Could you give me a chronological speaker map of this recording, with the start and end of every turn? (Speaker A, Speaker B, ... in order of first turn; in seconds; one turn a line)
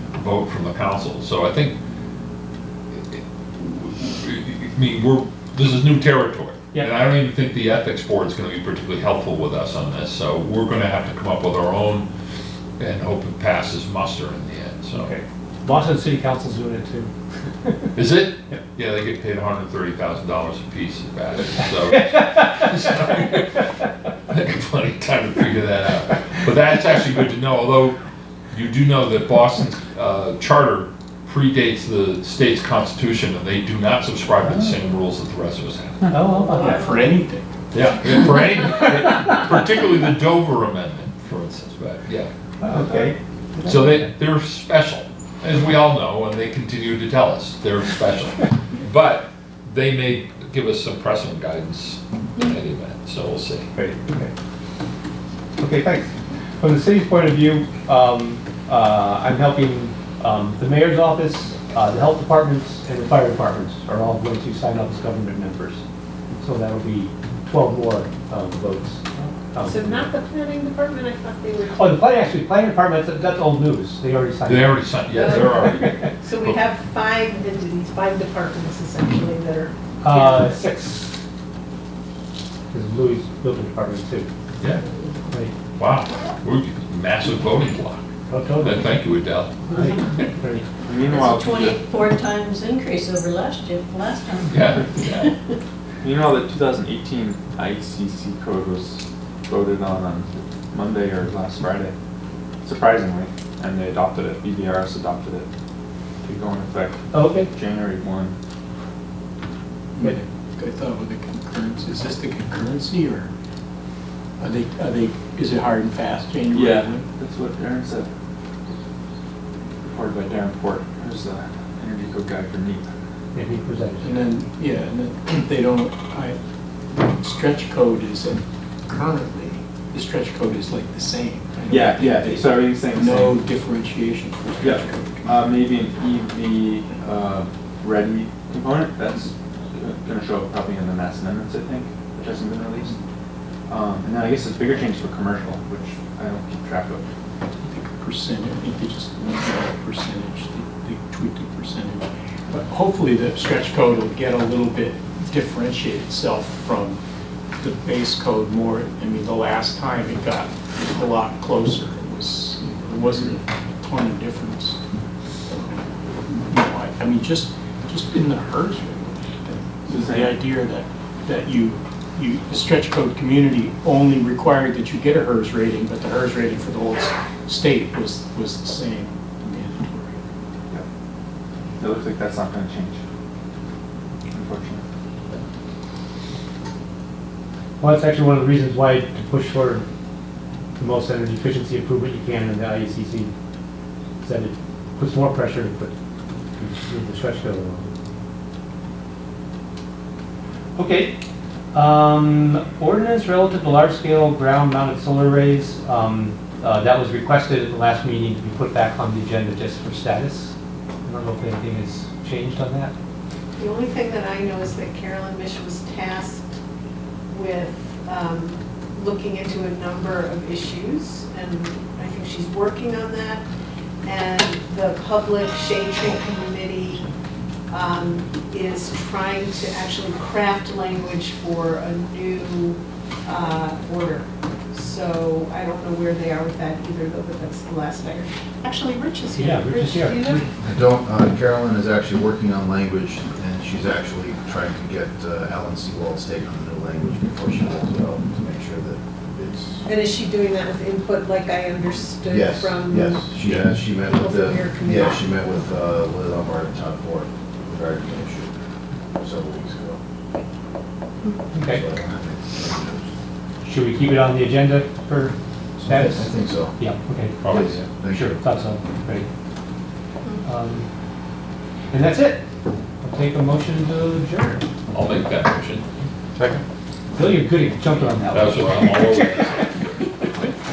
Speaker A: 0.1-1.8
Speaker A: 2.9-12.1
Speaker A: 12.8-15.1
Speaker B: 14.9-17.9
Speaker A: 17.9-23.7
Speaker B: 21.6-23.6
Speaker A: 24.3-28.0
Speaker A: 28.5-36.1
Speaker B: 34.4-34.8
Speaker B: 36.1-36.9
Speaker C: 36.4-37.6
Speaker A: 37.7-43.0
Speaker B: 38.3-39.3
Speaker B: 42.6-44.1
Speaker A: 43.6-53.7
Speaker B: 54.0-54.3
Speaker B: 55.6-65.8
Speaker B: 66.4-70.0
Speaker D: 69.6-72.0
Speaker B: 71.7-76.1
Speaker A: 74.5-76.6
Speaker D: 75.1-80.5
Speaker B: 80.0-81.2
Speaker B: 82.7-84.3
Speaker B: 85.3-85.5
Speaker A: 85.8-88.1
Speaker B: 88.3-89.0
Speaker A: 88.6-89.6
Speaker B: 89.7-90.7
Speaker E: 90.8-91.8
Speaker F: 91.0-95.3
Speaker A: 94.5-95.3
Speaker E: 96.0-101.9
Speaker E: 102.6-105.5
Speaker E: 106.2-108.3
Speaker B: 107.1-107.5
Speaker C: 109.9-113.3
Speaker C: 114.4-117.0
Speaker E: 116.5-118.1
Speaker E: 119.8-122.9
Speaker B: 123.3-124.2
Speaker C: 124.0-126.4
Speaker C: 126.9-135.4
Speaker E: 131.7-133.4
Speaker E: 134.6-143.0
Speaker E: 143.7-147.0
Speaker C: 147.6-157.0
Speaker C: 157.6-164.8
Speaker E: 163.1-163.3
Speaker C: 165.5-180.2
Speaker E: 169.9-170.3
Speaker E: 181.8-183.0
Speaker E: 184.3-184.8
Speaker B: 187.8-189.9
Speaker B: 190.8-193.3
Speaker B: 194.2-195.9
Speaker B: 196.6-197.9
Speaker B: 200.8-201.1
Speaker B: 201.7-210.5
Speaker B: 211.1-212.9
Speaker D: 213.6-216.5
Speaker D: 217.3-223.4
Speaker D: 224.0-227.1
Speaker D: 227.7-240.5
Speaker B: 239.3-240.4
Speaker G: 240.7-249.8
Speaker D: 249.8-255.2
Speaker G: 252.3-258.5
Speaker G: 259.2-260.0
Speaker B: 261.5-261.8
Speaker G: 261.6-263.1
Speaker B: 263.6-265.3
Speaker G: 265.8-266.7
Speaker B: 265.9-267.6
Speaker A: 267.4-267.8
Speaker G: 267.5-268.4
Speaker B: 268.1-269.3
Speaker B: 270.4-270.9
Speaker B: 271.9-272.4
Speaker B: 273.0-274.6
Speaker A: 274.9-275.8
Speaker B: 277.1-279.7
Speaker A: 278.3-279.8